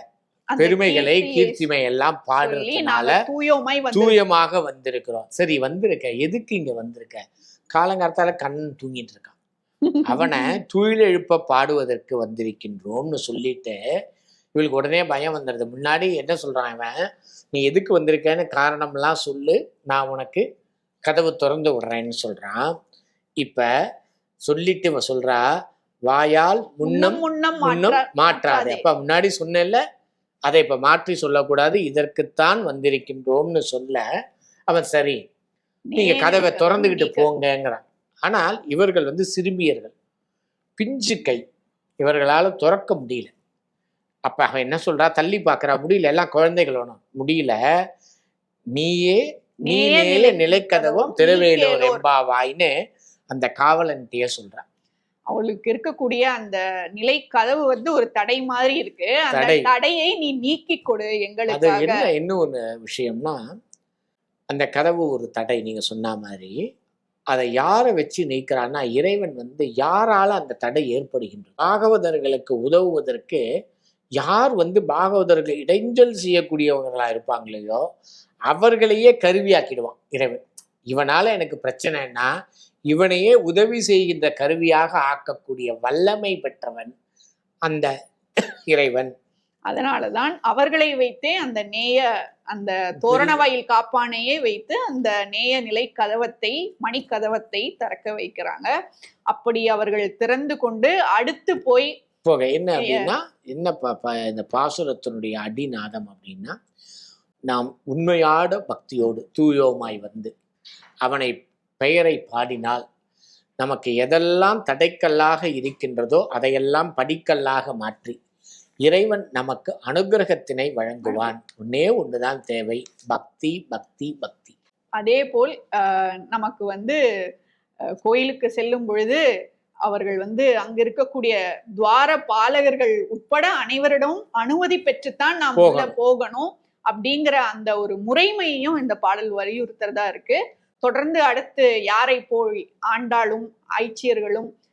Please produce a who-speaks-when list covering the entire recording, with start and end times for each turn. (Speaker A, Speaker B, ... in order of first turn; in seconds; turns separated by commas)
Speaker A: 0.5-1.6, Speaker B: 0.6-3.1, Speaker A: 2.4-4.2, Speaker B: 3.9-7.2, Speaker B: 7.7-9.3, Speaker A: 9.8-10.5, Speaker B: 10.1-13.8, Speaker B: 14.6-17.0, Speaker B: 17.5-20.4, Speaker B: 21.1-22.7, Speaker B: 23.4-23.7, Speaker B: 24.5-25.4, Speaker B: 26.1-29.8, Speaker A: 26.8-28.8, Speaker B: 30.5-34.0, Speaker B: 34.7-35.2, Speaker A: 35.9-37.3, Speaker B: 36.0-39.9, Speaker B: 40.8-41.4, Speaker B: 42.0-43.3, Speaker B: 44.3-47.6, Speaker B: 48.7-52.7, Speaker A: 49.7-52.0, Speaker B: 53.3-54.6, Speaker A: 55.3-62.0, Speaker B: 59.3-59.7, Speaker B: 61.5-63.4, Speaker B: 64.5-66.5, Speaker B: 67.3-73.4, Speaker B: 74.2-77.8, Speaker B: 78.5-82.3, Speaker B: 82.9-86.9, Speaker B: 88.7-89.1, Speaker A: 89.7-98.7, Speaker B: 93.0-93.4, Speaker A: 99.3-101.9, Speaker B: 102.2-106.5, Speaker A: 102.8-103.1, Speaker B: 107.5-110.3, Speaker B: 111.0-112.8, Speaker B: 113.6-118.2, Speaker B: 118.9-124.5, Speaker A: 121.0-121.3, Speaker A: 125.0-127.0, Speaker A: 128.0-129.2, Speaker A: 129.8-144.5, Speaker B: 135.6-135.9